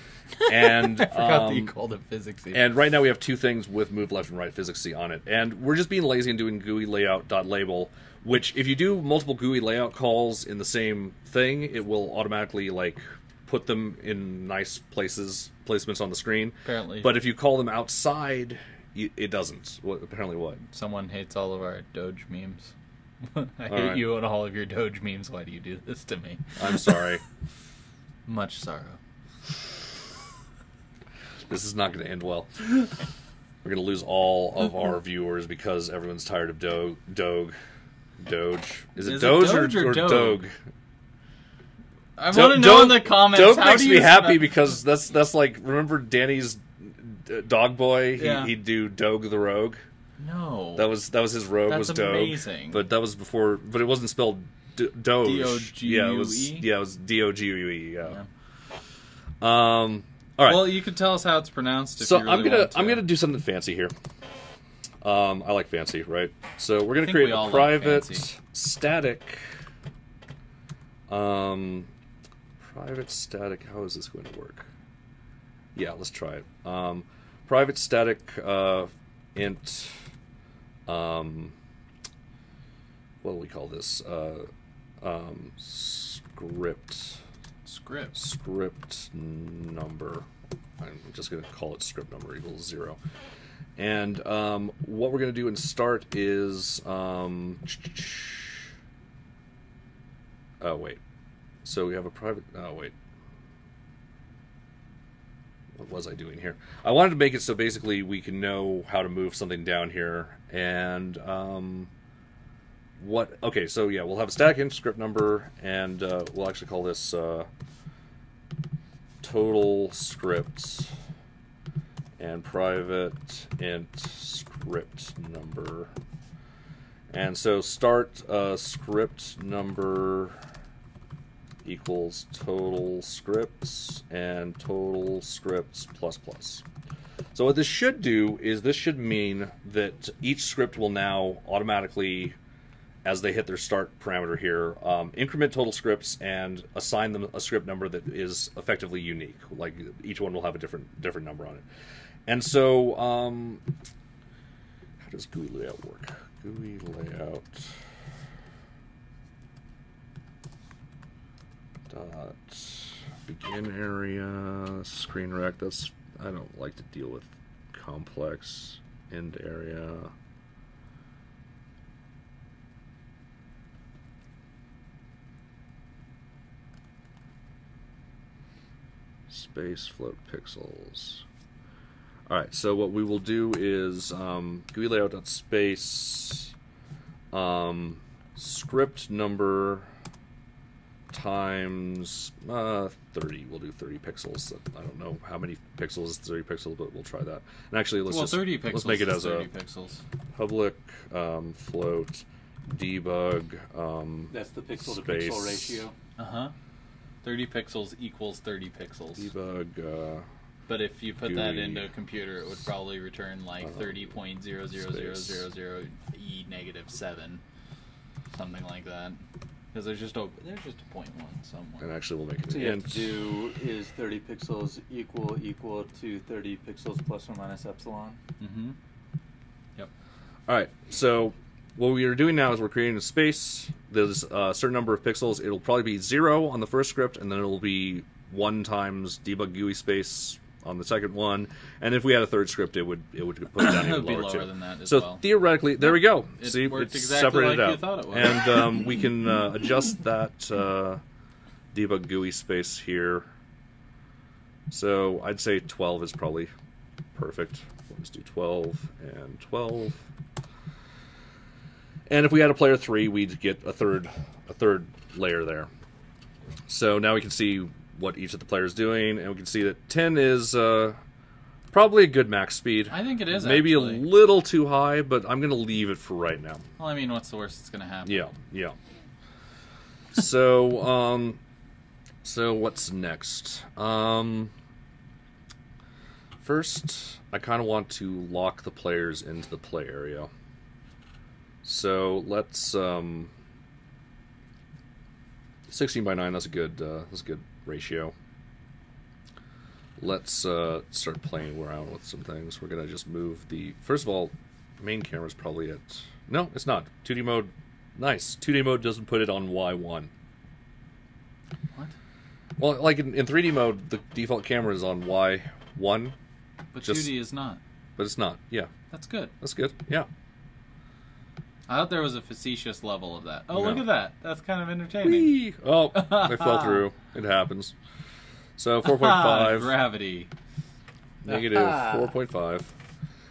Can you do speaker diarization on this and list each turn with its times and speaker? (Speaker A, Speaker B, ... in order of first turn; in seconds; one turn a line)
Speaker A: 0.4-2.7
Speaker B: 0.5-1.7
Speaker B: 2.5-20.6
Speaker A: 16.6-17.1
Speaker A: 20.7-22.7
Speaker A: 23.2-27.1
Speaker B: 23.7-24.1
Speaker B: 26.6-27.2
Speaker A: 28.3-29.0
Speaker B: 31.5-32.9
Speaker B: 33.6-37.6
Speaker B: 38.2-40.6
Speaker A: 39.0-40.4
Speaker A: 42.2-44.6
Speaker B: 42.3-49.8
Speaker A: 48.2-48.5
Speaker A: 50.2-50.9
Speaker B: 50.8-58.2
Speaker A: 51.7-52.8
Speaker A: 55.2-56.7
Speaker B: 59.4-60.8
Speaker A: 60.5-63.0
Speaker B: 62.0-63.9
Speaker B: 65.0-69.5
Speaker A: 67.0-68.3
Speaker B: 71.1-71.9
Speaker B: 72.6-74.7
Speaker B: 75.8-80.0
Speaker B: 80.9-81.6
Speaker B: 83.2-84.5
Speaker B: 85.0-87.2
Speaker A: 87.7-88.2
Speaker B: 88.1-90.3
Speaker B: 90.8-93.0
Speaker B: 93.8-98.7
Speaker B: 100.6-101.0
Speaker B: 101.6-102.9
Speaker B: 105.8-111.9
Speaker B: 113.0-117.5
Speaker B: 119.2-121.0
Speaker B: 122.2-125.9
Speaker B: 127.1-130.4
Speaker B: 131.6-136.7
Speaker B: 137.3-142.4
Speaker B: 143.1-151.6
Speaker B: 152.3-153.6
Speaker B: 155.0-157.8
Speaker B: 161.9-170.1
Speaker B: 179.3-181.2
Speaker B: 182.3-186.5
Speaker B: 187.3-189.9
Speaker B: 191.1-199.5
Speaker A: 198.1-200.0
Speaker B: 200.4-205.9
Speaker C: 204.3-205.9
Speaker A: 206.2-206.5
Speaker A: 207.2-209.3
Speaker B: 209.2-210.3
Speaker A: 210.7-217.4
Speaker B: 211.2-211.9
Speaker B: 213.6-214.0
Speaker B: 214.8-215.5
Speaker A: 218.3-219.2
Speaker A: 219.7-221.9
Speaker B: 221.8-223.4
Speaker C: 222.5-228.2
Speaker A: 228.4-228.8
Speaker B: 230.5-251.0
Speaker A: 243.6-245.2
Speaker A: 245.8-248.8
Speaker B: 251.7-253.3
Speaker B: 254.7-256.5
Speaker B: 257.2-260.0
Speaker B: 262.1-265.7
Speaker B: 266.7-271.0
Speaker B: 271.7-276.6
Speaker A: 272.9-274.1
Speaker A: 276.8-278.3
Speaker B: 278.1-278.8
Speaker B: 280.1-281.4
Speaker B: 282.2-284.5
Speaker B: 286.4-290.3
Speaker B: 291.6-293.3
Speaker B: 295.7-298.1
Speaker B: 300.0-310.1
Speaker B: 312.6-316.2
Speaker A: 316.7-317.6
Speaker B: 316.8-317.1
Speaker B: 318.0-318.7
Speaker A: 318.9-319.3
Speaker B: 319.4-320.1
Speaker A: 321.7-325.3
Speaker B: 323.5-323.9
Speaker B: 325.0-327.7
Speaker A: 325.9-326.9
Speaker B: 328.6-329.8
Speaker A: 328.8-330.3
Speaker B: 331.2-332.7
Speaker C: 331.5-332.1